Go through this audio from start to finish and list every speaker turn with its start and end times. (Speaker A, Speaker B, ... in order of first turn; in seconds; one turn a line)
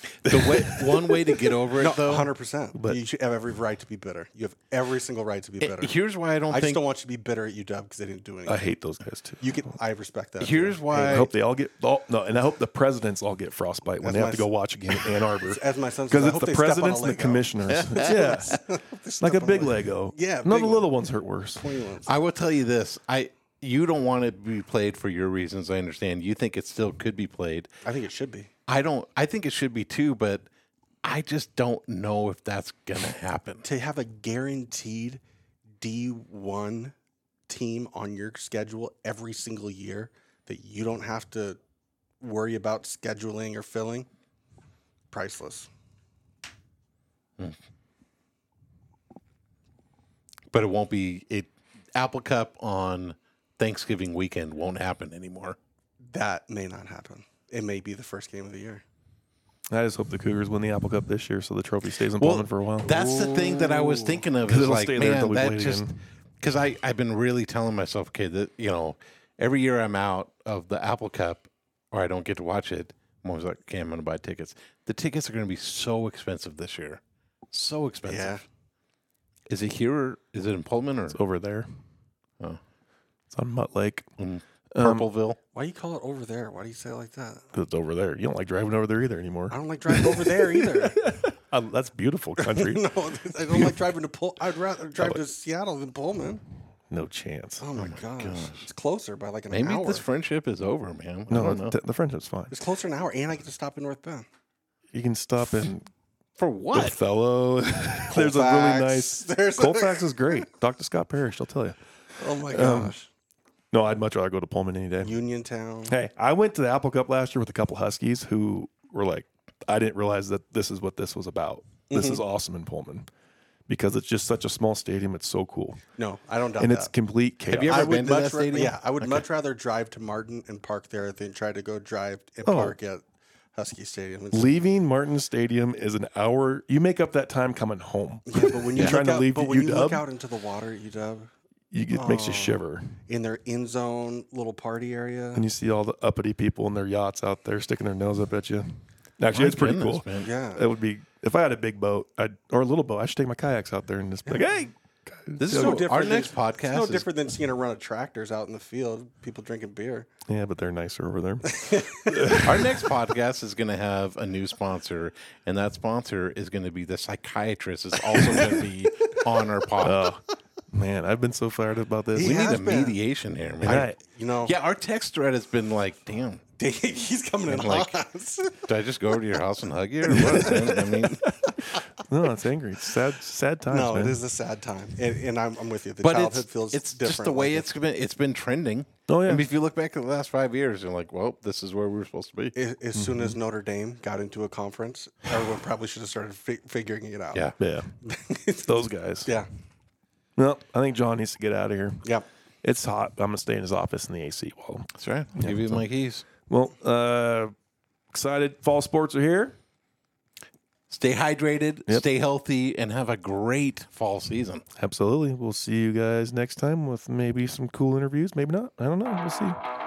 Speaker A: 0.2-1.2
Speaker B: 0.2-2.3
Speaker C: 1.7-5.9
Speaker B: 5.6-6.8
Speaker C: 6.5-8.6
Speaker A: 8.5-9.7
Speaker C: 9.4-11.2
Speaker B: 10.4-11.3
Speaker A: 11.0-18.6
Speaker C: 14.0-20.9
Speaker B: 17.7-18.2
Speaker A: 19.2-21.6
Speaker C: 21.6-22.1
Speaker B: 22.1-27.7
Speaker C: 27.8-28.5
Speaker B: 28.7-30.4
Speaker B: 31.0-33.6
Speaker C: 33.6-35.2
Speaker C: 35.8-36.9
Speaker C: 37.5-41.6
Speaker C: 42.2-44.1
Speaker C: 45.1-45.7
Speaker B: 50.5-55.6
Speaker C: 56.1-58.8
Speaker A: 59.7-63.0
Speaker B: 62.2-65.8
Speaker A: 63.9-66.0
Speaker B: 66.4-78.3
Speaker C: 78.0-78.4
Speaker B: 79.5-81.2
Speaker A: 81.1-81.7
Speaker A: 83.3-84.1
Speaker B: 84.2-85.4
Speaker A: 84.7-85.1
Speaker C: 85.5-87.5
Speaker A: 87.5-92.8
Speaker C: 89.5-91.0
Speaker C: 92.4-96.4
Speaker A: 93.5-93.8
Speaker A: 96.9-97.6
Speaker C: 97.6-100.0
Speaker B: 97.8-98.7
Speaker B: 99.5-101.8
Speaker A: 101.3-102.6
Speaker C: 102.5-104.2
Speaker A: 104.9-105.9
Speaker B: 106.4-107.0
Speaker A: 106.7-111.8
Speaker C: 108.1-110.4
Speaker C: 112.2-113.1
Speaker A: 112.5-112.9
Speaker A: 113.7-115.1
Speaker C: 115.0-115.9
Speaker A: 115.9-123.1
Speaker C: 121.9-122.2
Speaker A: 123.7-125.8
Speaker C: 126.0-126.9
Speaker A: 126.6-127.9
Speaker B: 127.5-128.8
Speaker C: 127.7-133.0
Speaker A: 132.4-132.8
Speaker C: 133.6-134.6
Speaker A: 134.3-140.0
Speaker C: 138.3-141.3
Speaker A: 141.7-142.9
Speaker C: 141.9-145.4
Speaker A: 145.3-155.8
Speaker B: 149.3-150.3
Speaker C: 150.2-150.6
Speaker B: 155.4-157.1
Speaker C: 155.4-160.1
Speaker A: 160.3-162.6
Speaker C: 161.4-162.5
Speaker B: 162.4-170.1
Speaker C: 168.1-168.6
Speaker A: 169.8-172.5
Speaker C: 172.1-173.0
Speaker B: 172.2-173.9
Speaker C: 173.6-174.5
Speaker A: 173.6-174.0
Speaker B: 174.4-176.4
Speaker C: 176.6-178.6
Speaker B: 177.4-178.0
Speaker B: 178.6-181.2
Speaker C: 180.1-181.8
Speaker A: 180.2-180.6
Speaker A: 181.4-184.2
Speaker C: 183.7-187.7
Speaker B: 186.0-192.6
Speaker A: 189.1-189.4
Speaker C: 192.6-197.5
Speaker A: 192.9-193.3
Speaker A: 197.6-197.9
Speaker C: 198.0-199.5
Speaker A: 198.6-199.3
Speaker A: 200.4-202.1
Speaker A: 202.6-205.8
Speaker B: 205.0-206.2
Speaker A: 206.5-207.5
Speaker A: 208.1-209.6
Speaker B: 210.9-214.6
Speaker A: 214.8-219.6